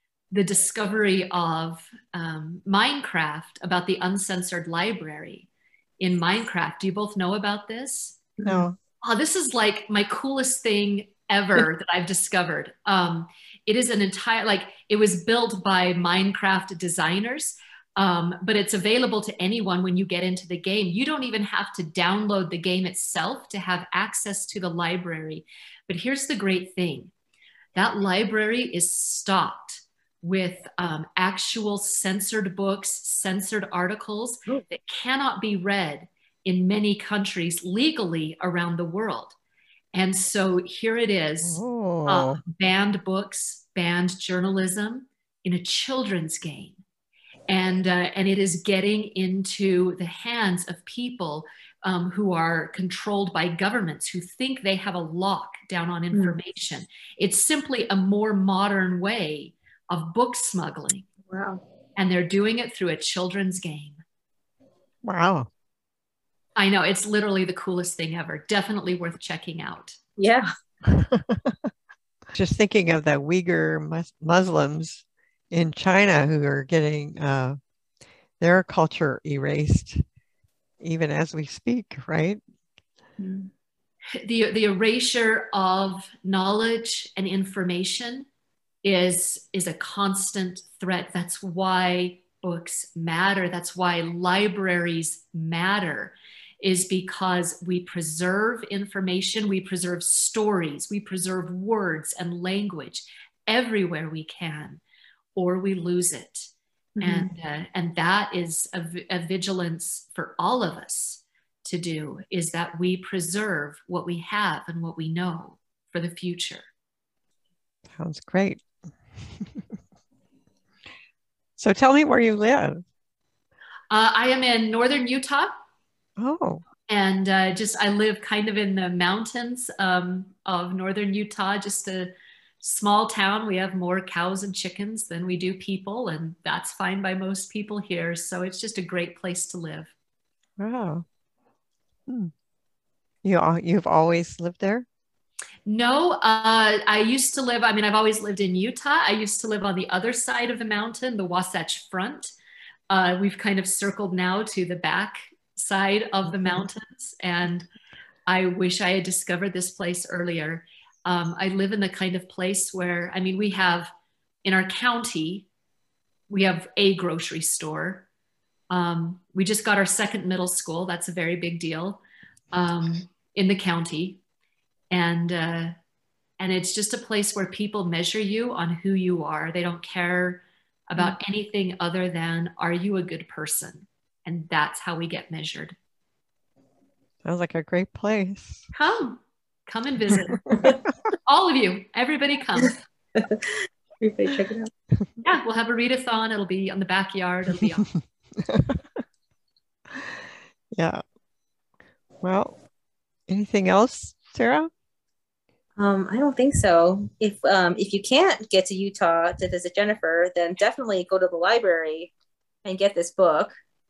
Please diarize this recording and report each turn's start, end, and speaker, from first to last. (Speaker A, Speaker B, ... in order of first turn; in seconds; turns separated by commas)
Speaker A: 0.3-8.4, Speaker B: 8.4-8.8, Speaker A: 9.0-27.1, Speaker A: 27.8-39.4, Speaker A: 39.9-46.8, Speaker B: 41.5-42.4, Speaker A: 47.5-61.1, Speaker C: 61.3-61.6, Speaker A: 62.0-64.0, Speaker B: 65.0-65.5, Speaker A: 66.6-70.0, Speaker C: 70.2-70.5, Speaker B: 70.9-71.5, Speaker B: 72.3-77.6, Speaker B: 78.4-80.0, Speaker B: 80.8-82.4, Speaker C: 83.2-83.5, Speaker A: 84.2-88.3, Speaker A: 88.8-104.8, Speaker A: 105.3-116.7, Speaker C: 107.0-107.3, Speaker B: 118.0-118.6, Speaker B: 121.6-122.8, Speaker A: 123.9-125.5, Speaker B: 126.2-126.6, Speaker A: 126.9-139.9, Speaker B: 140.6-141.1, Speaker B: 143.2-144.9, Speaker A: 145.7-152.3, Speaker A: 152.9-157.7, Speaker A: 158.3-163.9, Speaker A: 164.4-165.5, Speaker A: 166.3-168.1, Speaker A: 168.7-174.2, Speaker A: 174.9-175.7, Speaker A: 176.4-185.8, Speaker B: 187.2-188.7, Speaker A: 188.7-190.7, Speaker B: 190.1-190.9, Speaker A: 191.2-192.8, Speaker C: 192.6-194.7, Speaker A: 195.2-197.9, Speaker B: 198.4-198.8, Speaker B: 200.8-201.0, Speaker B: 202.2-202.6, Speaker B: 203.3-204.7, Speaker C: 205.8-212.1, Speaker C: 212.6-213.5